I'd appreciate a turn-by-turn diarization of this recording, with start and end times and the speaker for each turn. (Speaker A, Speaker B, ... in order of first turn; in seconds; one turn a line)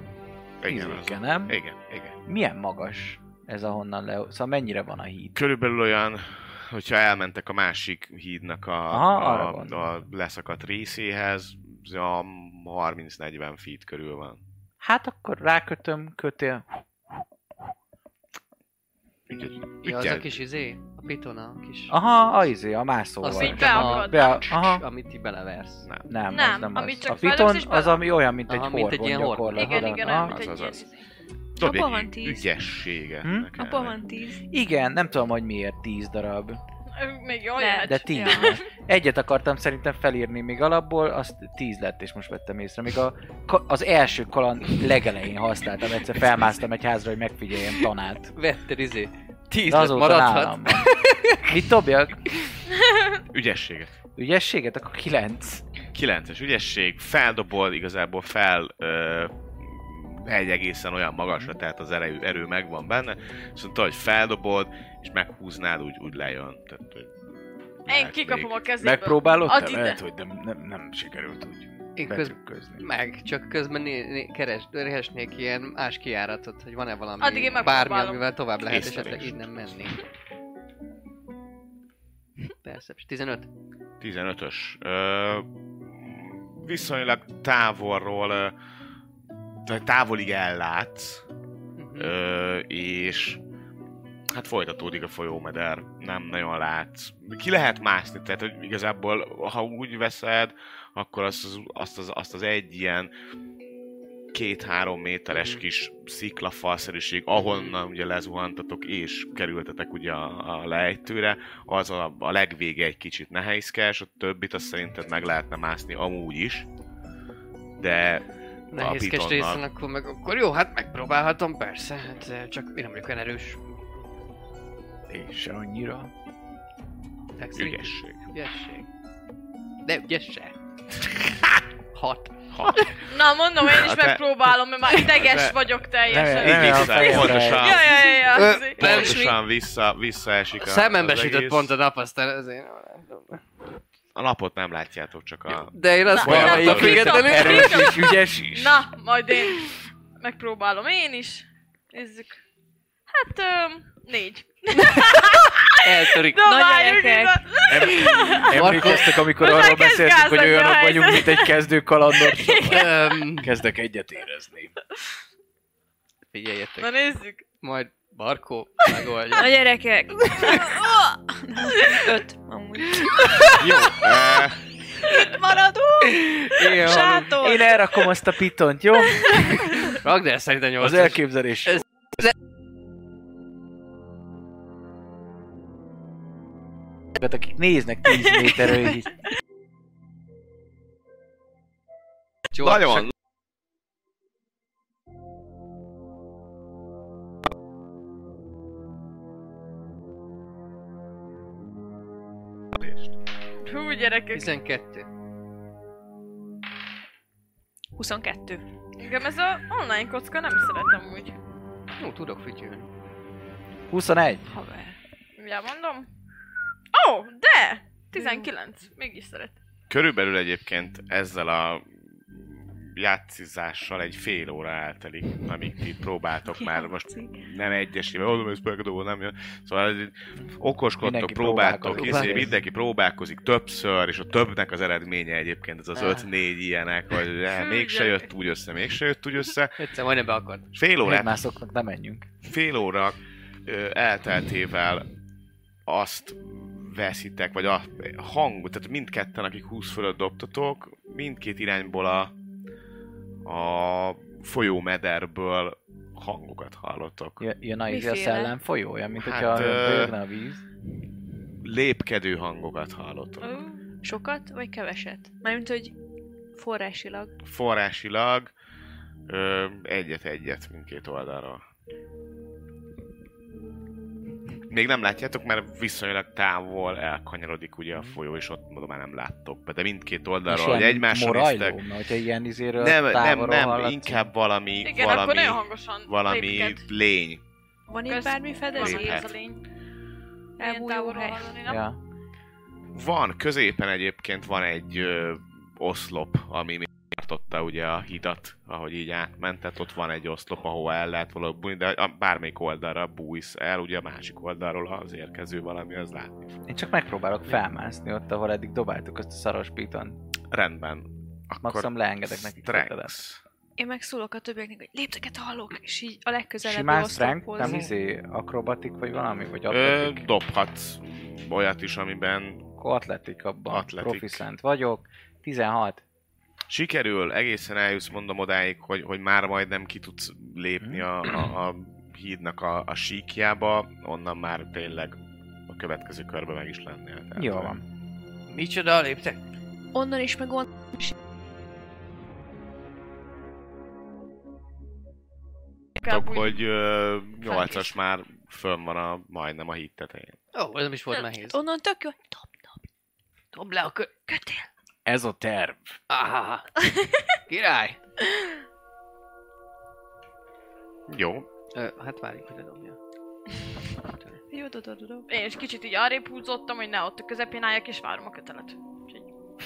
Speaker A: 0.6-2.1
Speaker B: 0.6-1.6
Speaker B: 2.3-5.4
Speaker A: 5.3-14.4
Speaker B: 8.9-9.9
Speaker B: 14.8-16.8
Speaker A: 19.3-20.3
Speaker C: 19.8-21.9
Speaker B: 21.9-24.9
Speaker C: 23.2-25.9
Speaker D: 23.3-24.5
Speaker A: 25.8-26.2
Speaker B: 26.1-30.4
Speaker D: 26.3-28.0
Speaker C: 28.5-30.0
Speaker D: 29.5-31.1
Speaker A: 30.2-30.8
Speaker E: 31.6-32.5
Speaker A: 31.6-34.0
Speaker B: 33.2-33.5
Speaker E: 33.5-34.4
Speaker B: 34.5-36.6
Speaker D: 37.0-38.6
Speaker E: 37.6-38.5
Speaker B: 37.8-48.4
Speaker C: 48.4-51.6
Speaker B: 49.7-52.3
Speaker A: 53.3-54.0
Speaker B: 54.2-55.6
Speaker A: 55.9-67.1
Speaker A: 67.8-68.6
Speaker D: 67.9-70.0
Speaker B: 68.8-72.9
Speaker C: 72.0-80.0
Speaker D: 77.2-78.3
Speaker A: 78.6-79.5
Speaker C: 82.6-83.5
Speaker A: 84.0-88.6
Speaker A: 89.7-91.2
Speaker C: 91.8-92.1
Speaker A: 92.0-93.4
Speaker A: 94.3-103.1
Speaker A: 104.3-116.7
Speaker C: 105.3-105.6
Speaker C: 107.3-107.8
Speaker A: 117.8-119.6
Speaker C: 118.7-123.8
Speaker B: 125.1-126.1
Speaker C: 127.4-128.9
Speaker A: 127.5-128.2
Speaker C: 129.8-130.5
Speaker C: 131.9-132.9
Speaker A: 132.5-135.7
Speaker D: 133.0-139.0
Speaker B: 136.1-137.7
Speaker A: 136.3-141.7
Speaker C: 137.2-139.4
Speaker C: 140.6-143.4
Speaker A: 144.2-147.6
Speaker C: 145.5-148.0
Speaker D: 146.1-152.4
Speaker B: 146.2-148.9
Speaker D: 153.1-161.6
Speaker C: 155.8-156.4
Speaker E: 156.4-157.5
Speaker B: 157.7-164.8
Speaker C: 158.5-159.2
Speaker D: 162.2-163.1
Speaker C: 162.6-163.5
Speaker C: 166.3-167.0
Speaker D: 166.8-167.4
Speaker C: 167.6-169.5
Speaker E: 169.3-174.0
Speaker C: 170.2-170.7
Speaker D: 171.8-172.1
Speaker C: 173.2-173.6
Speaker A: 173.6-174.6
Speaker E: 175.0-177.7
Speaker C: 176.1-177.4
Speaker B: 177.3-179.6
Speaker C: 179.8-181.2
Speaker B: 180.8-182.3
Speaker B: 187.2-189.2
Speaker C: 192.5-193.1
Speaker A: 192.7-193.1
Speaker A: 202.8-203.1
Speaker D: 203.6-204.5
Speaker C: 204.3-205.1
Speaker E: 208.0-208.6
Speaker D: 209.0-211.4
Speaker C: 212.0-212.9
Speaker B: 213.9-214.5
Speaker E: 214.5-215.0
Speaker D: 215.4-216.1
Speaker D: 216.9-219.6
Speaker E: 218.1-218.5
Speaker A: 219.9-239.8
Speaker E: 226.5-227.4
Speaker B: 231.0-232.6
Speaker C: 231.9-232.5
Speaker C: 235.9-236.3
Speaker D: 237.5-238.3
Speaker C: 239.8-240.7
Speaker A: 240.7-241.4
Speaker B: 241.0-242.3
Speaker A: 242.4-245.1
Speaker A: 245.9-252.3
Speaker A: 253.4-257.4
Speaker B: 257.4-260.6
Speaker E: 257.9-258.6
Speaker A: 259.1-260.1
Speaker A: 261.6-263.6
Speaker D: 263.4-263.8
Speaker E: 264.0-265.9
Speaker E: 266.6-267.3
Speaker A: 267.4-268.5
Speaker A: 269.3-271.6
Speaker A: 274.7-281.8
Speaker B: 280.5-284.3
Speaker A: 282.8-287.4
Speaker D: 284.8-286.9
Speaker E: 287.9-289.3
Speaker D: 288.1-289.6
Speaker A: 288.7-289.4
Speaker E: 290.6-291.6
Speaker D: 290.6-291.8
Speaker B: 291.7-292.0
Speaker A: 292.9-306.6
Speaker B: 306.7-310.2
Speaker A: 310.5-313.4
Speaker B: 311.6-313.2
Speaker E: 313.8-317.9
Speaker B: 316.6-320.3
Speaker A: 319.7-322.7
Speaker B: 322.8-326.0
Speaker A: 323.7-324.4
Speaker A: 326.7-337.8
Speaker B: 330.8-331.1
Speaker B: 337.4-337.8
Speaker C: 338.5-339.4
Speaker E: 339.9-341.2
Speaker D: 346.0-346.6
Speaker A: 346.0-350.4
Speaker C: 347.5-347.9
Speaker C: 350.5-351.6
Speaker E: 351.5-352.9
Speaker C: 353.5-354.1
Speaker E: 354.3-354.6
Speaker B: 355.1-356.0
Speaker C: 356.1-356.8
Speaker C: 357.5-358.0
Speaker A: 361.1-361.5
Speaker C: 361.7-363.0
Speaker E: 364.5-365.3
Speaker D: 365.3-369.3